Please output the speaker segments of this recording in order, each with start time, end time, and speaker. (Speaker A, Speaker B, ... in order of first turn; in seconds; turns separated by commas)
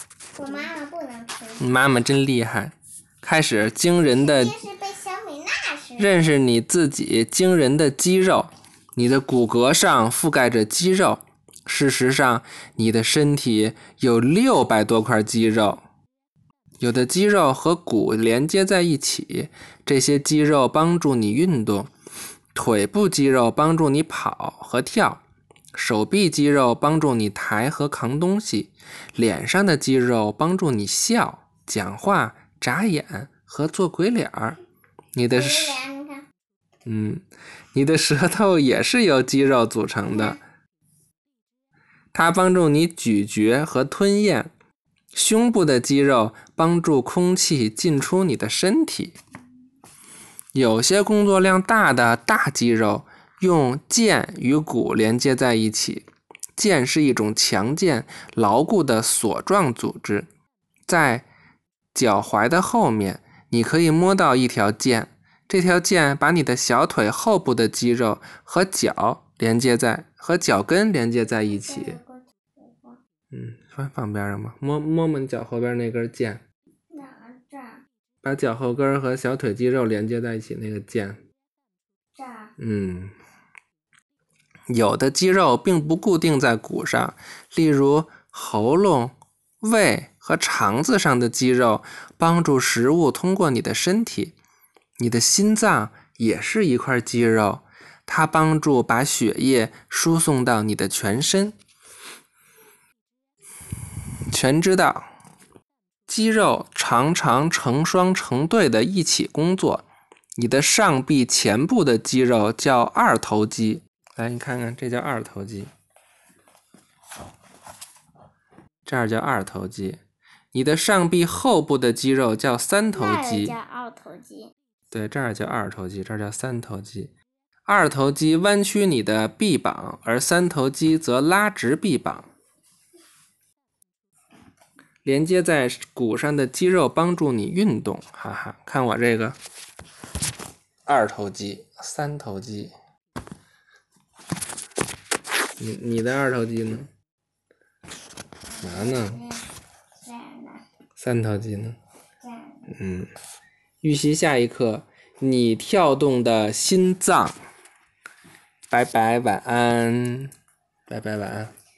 Speaker A: 0.3-1.7, Speaker B: 1.6-4.5, Speaker A: 4.1-6.2, Speaker B: 6.0-15.8, Speaker B: 16.8-21.9, Speaker B: 22.5-25.2, Speaker B: 25.7-34.6, Speaker B: 35.1-35.8, Speaker A: 35.3-36.3, Speaker B: 36.9-40.4, Speaker A: 40.1-40.4, Speaker B: 42.1-44.5, Speaker B: 45.1-49.2, Speaker B: 50.5-56.0, Speaker B: 56.6-60.3, Speaker B: 60.9-61.2, Speaker B: 61.9-72.0, Speaker A: 71.3-73.0, Speaker B: 73.3-76.4, Speaker A: 76.9-77.8, Speaker B: 78.2-81.2, Speaker A: 82.2-82.5, Speaker B: 82.6-83.1, Speaker B: 84.7-94.3, Speaker B: 95.0-101.5, Speaker B: 104.3-105.1, Speaker B: 106.1-109.8, Speaker B: 110.4-115.7, Speaker B: 118.8-120.0, Speaker B: 120.5-123.5, Speaker A: 122.9-124.5, Speaker B: 124.9-127.1, Speaker B: 127.7-132.3, Speaker B: 135.0-139.4, Speaker B: 140.9-142.7, Speaker B: 145.6-146.9, Speaker A: 148.5-149.5, Speaker B: 148.6-149.2, Speaker A: 150.0-150.6, Speaker B: 151.0-151.8, Speaker A: 152.2-152.7, Speaker B: 152.7-153.1, Speaker B: 153.8-157.4, Speaker B: 158.7-160.3, Speaker B: 160.9-161.5